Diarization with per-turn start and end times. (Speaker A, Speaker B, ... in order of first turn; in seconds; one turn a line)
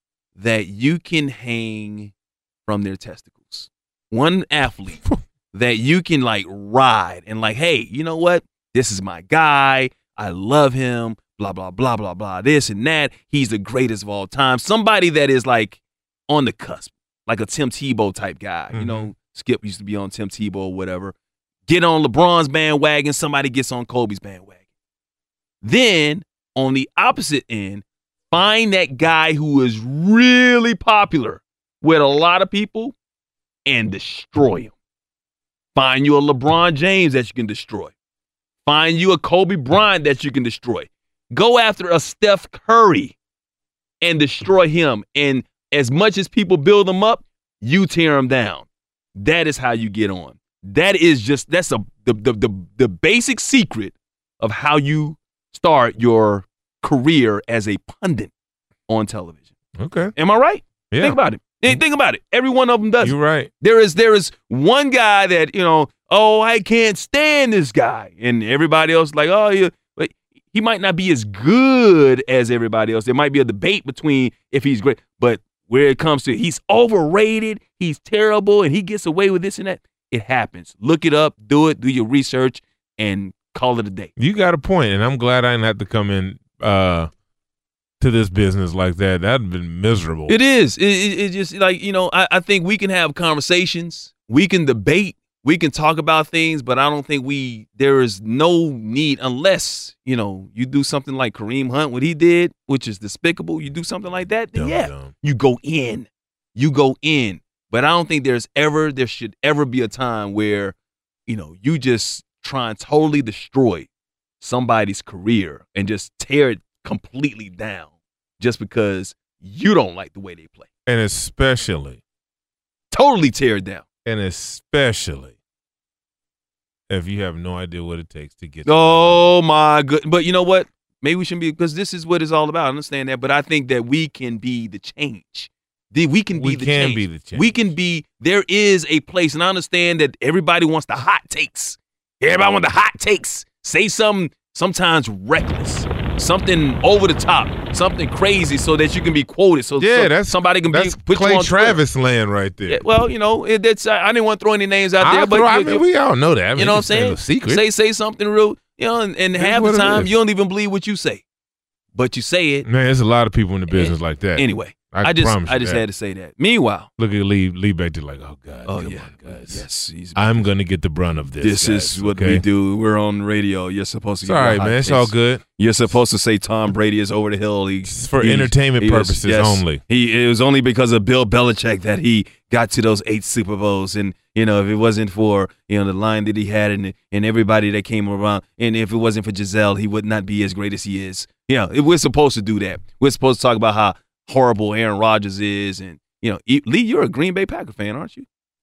Speaker A: 0.4-2.1
Speaker A: 2.7-5.0
Speaker A: 5.5-21.1
Speaker B: 18.7-19.1
Speaker A: 21.7-24.6
Speaker A: 25.6-33.0
Speaker A: 33.7-34.7
Speaker A: 35.8-37.9
Speaker A: 38.6-43.1
Speaker A: 44.0-58.3
Speaker A: 58.9-59.5
Speaker B: 59.8-60.1
Speaker A: 60.2-84.1
Speaker B: 60.9-61.8
Speaker B: 63.0-63.5
Speaker B: 84.2-87.1
Speaker B: 88.0-90.4
Speaker A: 90.3-110.8
Speaker B: 104.5-105.1
Speaker A: 111.3-113.9
Speaker A: 114.4-120.7
Speaker B: 120.9-122.0
Speaker A: 122.9-123.8
Speaker B: 124.1-125.3
Speaker B: 126.9-129.3
Speaker A: 128.7-151.8
Speaker B: 136.3-137.5
Speaker B: 149.8-152.8
Speaker A: 152.7-155.8
Speaker B: 155.0-157.6
Speaker A: 156.6-161.2
Speaker B: 159.4-160.1
Speaker A: 161.9-162.7
Speaker B: 162.7-165.8
Speaker A: 163.7-166.9
Speaker B: 167.0-169.6
Speaker A: 168.7-170.5
Speaker B: 170.2-172.4
Speaker A: 171.4-198.3
Speaker B: 174.2-175.4
Speaker B: 177.8-179.8